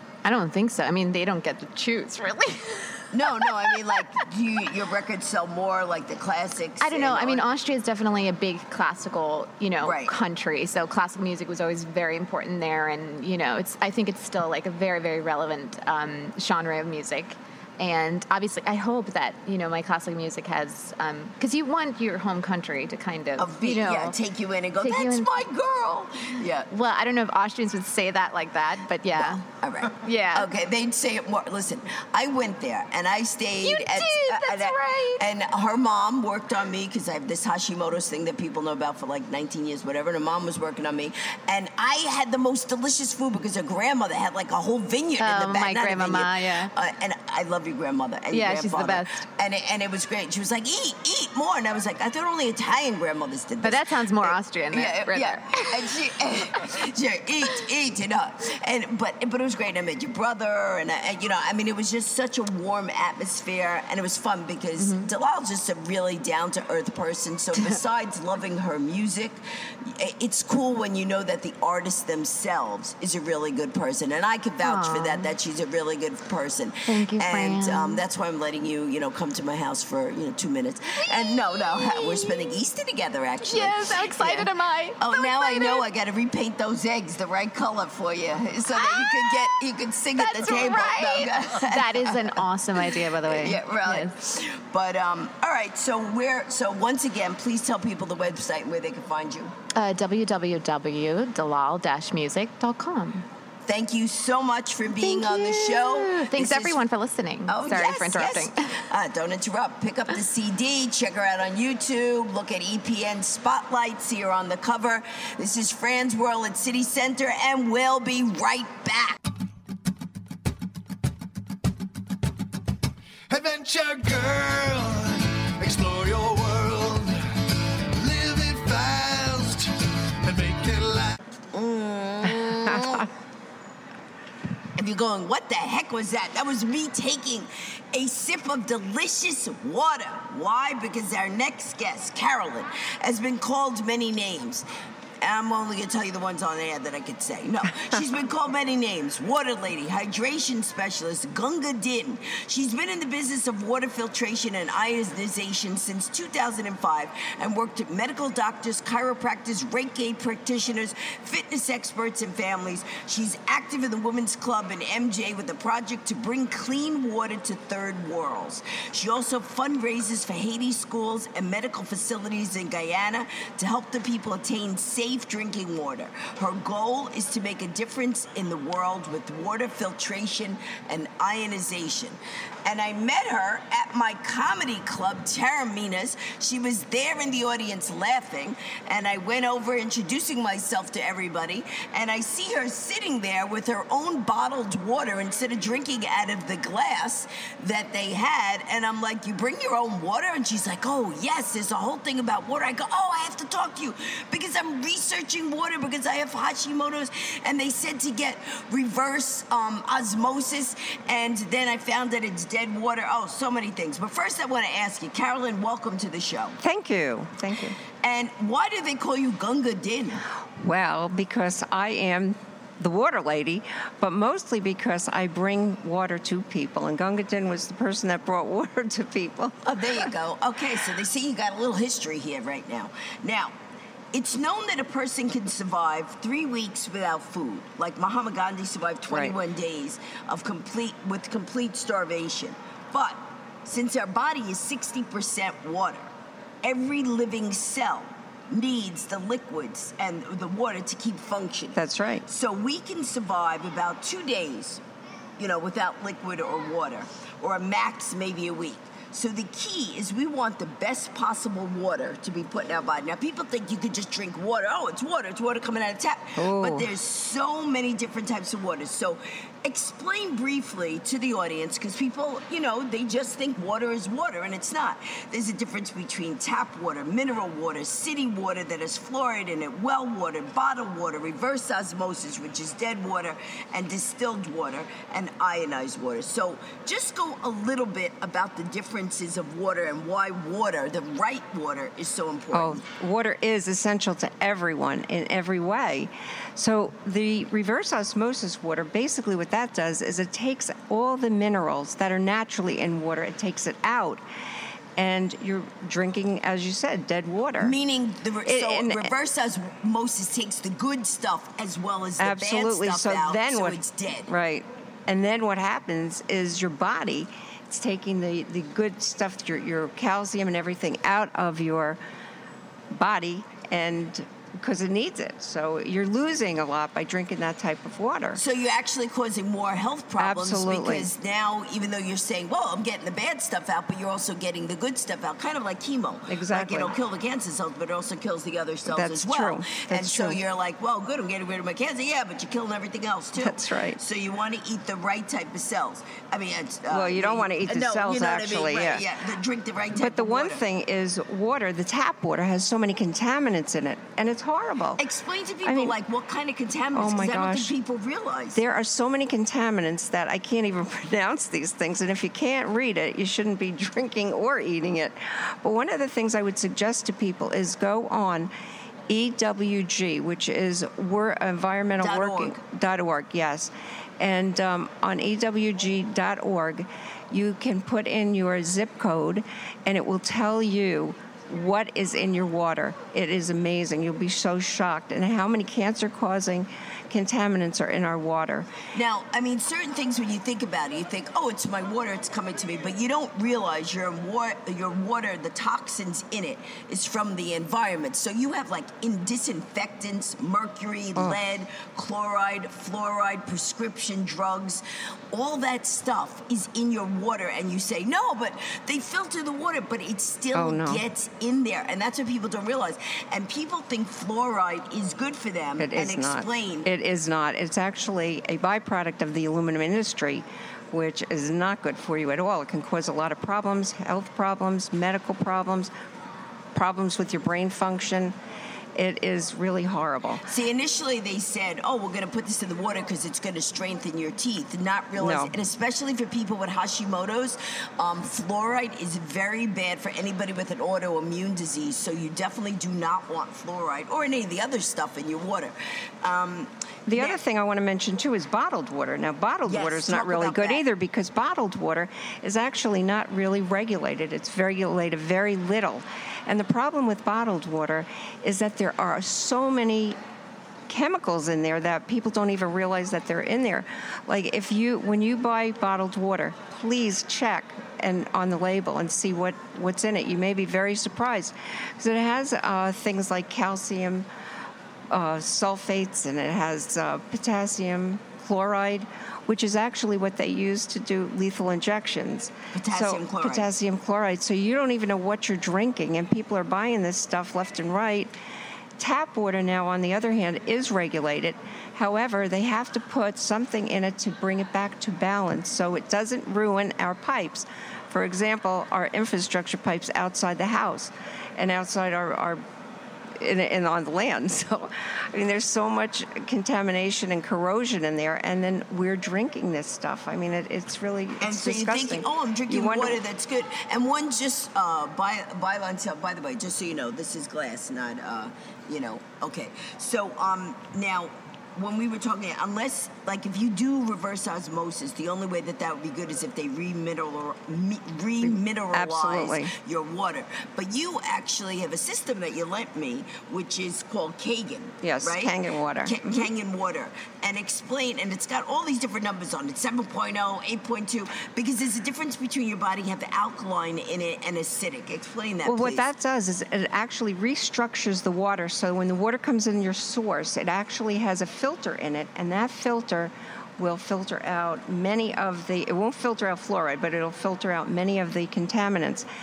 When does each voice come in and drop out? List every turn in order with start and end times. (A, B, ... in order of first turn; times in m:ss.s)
0:00.2-0:04.2 A
0:03.1-0:07.5 B
0:06.8-0:24.2 A
0:09.8-0:10.2 B
0:23.4-0:26.7 B
0:24.8-0:25.4 A
0:26.7-0:30.5 A
0:29.1-1:39.5 B
0:33.6-0:35.2 A
0:45.2-0:46.7 A
0:48.3-0:49.2 A
0:53.6-0:56.0 A
1:04.8-1:05.1 A
1:14.6-1:15.3 A
1:16.9-1:18.0 A
1:20.9-1:22.6 A
1:23.4-1:25.9 A
1:28.7-1:29.6 A
1:30.2-1:34.1 A
1:39.8-1:43.2 A
1:43.7-1:46.8 B
1:44.9-1:48.8 A
1:47.5-1:59.2 B
2:03.3-2:11.2 C
2:11.5-2:13.1 B
2:14.8-2:24.7 B
2:25.2-3:36.6 B
3:36.6-3:37.8 D
3:38.0-3:40.2 B
3:40.6-3:50.0 D
3:49.6-3:53.5 B
3:54.1-4:06.1 B
3:59.1-3:59.4 D
4:06.6-4:14.8 B
4:11.8-4:12.2 D
4:15.4-4:52.8 B
4:26.4-4:26.9 D
4:52.5-5:04.2 D
5:05.0-5:07.8 D
5:07.6-5:14.3 B
5:08.5-5:09.1 D
5:12.2-5:22.0 D
5:22.9-5:28.4 D
5:28.4-5:50.6 B
5:30.2-5:31.1 D
5:36.3-5:36.9 D
5:38.9-5:40.4 D
5:43.4-5:44.0 D
5:46.9-5:49.0 D
5:50.0-5:55.0 D
5:55.0-5:58.6 B
5:55.7-5:56.0 D
5:57.0-5:57.7 D
5:58.6-6:08.5 D
6:09.1-6:28.7 D
6:12.0-6:12.6 B
6:28.9-6:56.9 B
6:50.5-6:51.0 D
6:55.8-7:05.9 D
7:06.7-7:08.4 D
7:09.0-7:10.4 D
7:10.5-7:27.4 B
7:15.2-7:15.5 D
7:27.1-7:40.2 D
7:29.7-7:30.8 B
7:40.9-7:54.3 D
7:55.1-8:08.3 D
8:02.7-8:03.7 B
8:09.0-8:22.6 D
8:23.4-8:33.2 D
8:31.4-9:06.1 B
8:48.9-8:49.7 D
8:55.0-8:56.4 D
9:05.6-9:19.3 D